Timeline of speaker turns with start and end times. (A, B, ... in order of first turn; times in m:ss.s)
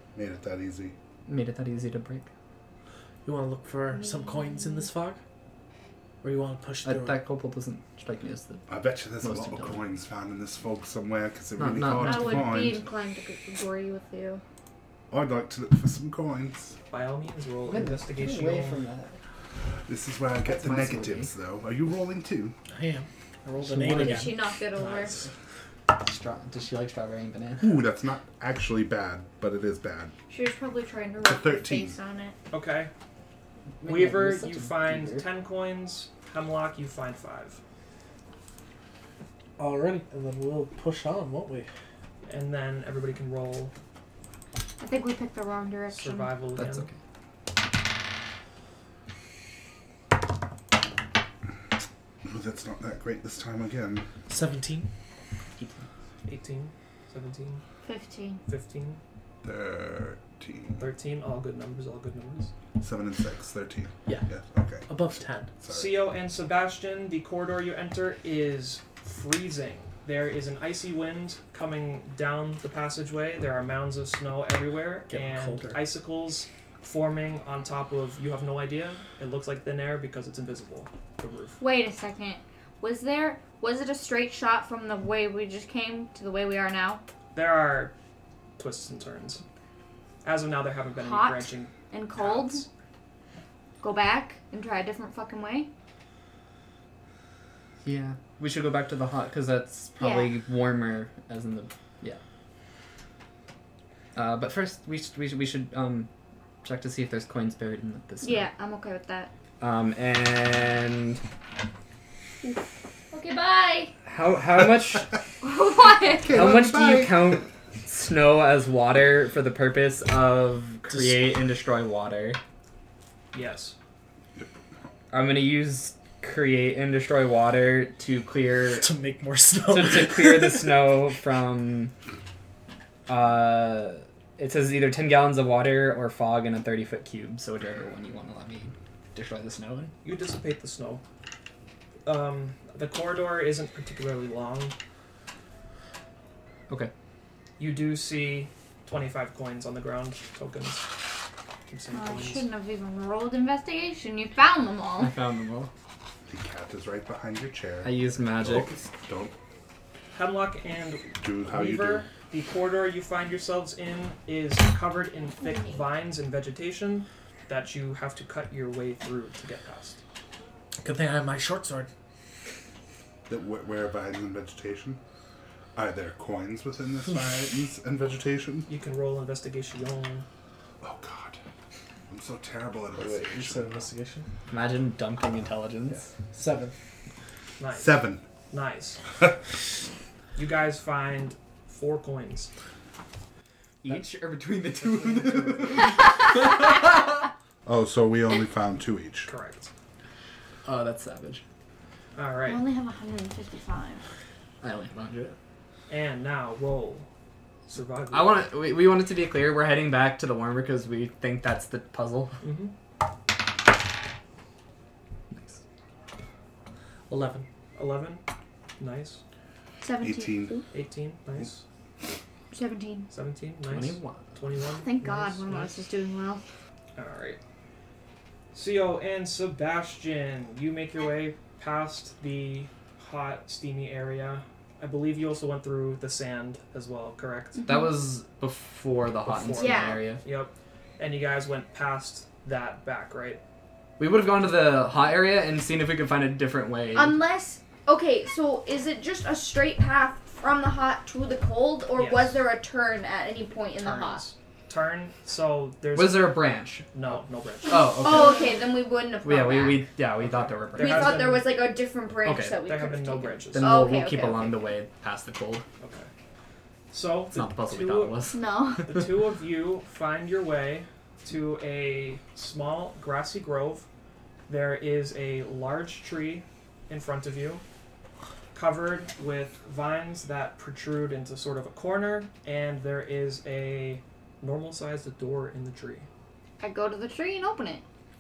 0:00.1-0:00.9 A
0:01.3-0:02.3 B
0:03.2-0:05.2 C
0:04.1-0:04.8 D
0:06.2-0:07.2 C
0:06.8-0:08.6 B
0:08.7-0:12.8 A
0:09.2-0:09.8 B
0:11.6-0:12.5 B
0:12.0-0:14.4 D
0:15.1-0:16.8 A
0:16.9-0:18.8 E
0:17.7-0:19.2 B
0:19.9-0:22.6 A
0:20.4-0:21.3 B
0:22.7-0:24.4 C
0:23.6-0:24.3 B
0:24.0-0:25.1 D
0:24.8-0:25.2 E
0:25.9-0:27.8 B
0:27.6-0:30.1 A
0:30.3-0:32.4 D
0:31.2-0:32.0 A
0:32.5-0:32.9 E
0:33.8-0:35.2 B
0:33.8-0:37.6 E
0:39.6-0:41.7 C
0:42.2-0:43.7 E
0:44.8-0:46.3 D
0:45.9-0:46.9 E
0:46.6-0:46.9 B
0:52.2-0:54.1 A
0:54.3-0:54.9 C
0:55.6-0:55.9 B
0:56.2-0:57.6 E
0:57.8-0:58.4 D
0:58.5-0:59.0 E
0:59.4-1:00.8 A
1:00.8-1:02.5 E
1:02.8-1:04.8 A
1:04.8-1:05.5 C
1:05.6-1:06.0 A
1:05.7-1:21.6 E
1:15.1-1:15.8 C
1:21.6-1:27.0 D
1:27.3-1:27.9 E
1:28.6-1:29.4 E
1:30.2-1:32.7 E
1:31.0-1:32.6 D
1:33.8-1:35.7 D
1:37.8-1:42.2 B
1:40.0-1:40.3 D
1:44.1-1:46.1 B
1:46.6-1:48.5 B
1:48.2-1:49.3 D
1:49.6-1:51.2 B
1:53.1-1:53.9 D
1:54.0-1:55.1 B
1:55.4-1:56.3 D
1:55.8-1:57.4 A
1:56.3-2:02.4 B
2:00.9-2:01.3 C
2:03.3-2:03.8 E
2:05.1-2:08.9 B
2:08.8-2:10.8 C
2:09.7-2:11.9 B
2:13.1-2:19.9 B
2:20.0-2:21.0 E
2:22.0-2:24.7 E
2:27.6-2:30.9 E
2:31.7-2:32.4 E
2:31.9-2:35.1 D
2:35.0-2:35.7 B
2:36.2-2:39.3 A
2:37.8-2:38.7 B
2:40.1-2:50.0 E
2:41.2-2:42.1 A
2:45.4-2:45.8 D
2:50.8-2:51.9 C
2:53.3-2:55.0 A
2:55.7-2:58.7 A
2:58.7-3:00.3 E
3:00.8-3:01.4 A
3:02.1-3:03.7 A
3:02.9-3:04.3 C
3:04.5-3:06.1 B
3:05.9-3:06.7 C
3:07.6-3:08.0 E
3:07.7-3:08.2 A
3:08.5-3:09.0 E
3:10.4-3:12.5 E
3:13.8-3:17.3 B
3:15.1-3:15.6 A
3:17.6-3:19.3 A
3:19.3-3:19.7 E
3:20.6-3:21.4 B
3:22.1-3:22.6 E
3:22.5-3:24.0 D
3:24.6-3:25.4 B
3:25.9-3:27.1 E
3:27.7-3:28.4 E
3:28.1-3:32.4 B
3:32.4-3:32.7 E
3:37.1-3:37.5 C
3:37.7-3:38.2 E
3:38.8-3:39.2 E
3:39.8-3:40.6 D
3:40.0-3:40.6 A
3:40.7-3:41.6 E
3:42.5-3:43.1 D
3:43.1-3:44.9 E
3:43.7-3:44.4 B
3:44.7-3:46.4 D
3:47.0-3:47.4 E
3:48.5-3:57.6 E
3:57.6-3:57.9 D
3:57.6-4:00.2 B
3:59.2-4:03.4 E
3:59.6-4:00.0 D
4:04.0-4:07.2 B
4:06.9-4:14.2 D
4:11.9-4:12.4 E
4:13.8-4:16.4 E
4:15.9-4:16.8 B
4:16.9-4:18.4 E
4:17.6-4:18.6 B
4:17.7-4:19.8 D
4:19.2-4:21.3 B
4:20.2-4:21.6 E
4:20.8-4:24.7 D
4:22.2-4:22.6 B
4:22.6-4:23.8 E
4:23.5-4:25.6 B
4:25.8-4:26.1 E
4:26.9-4:28.2 E
4:27.3-4:29.0 B
4:28.3-4:28.9 D
4:28.8-4:33.9 E
4:34.5-4:37.6 E
4:38.5-4:46.1 E
4:46.6-4:47.8 D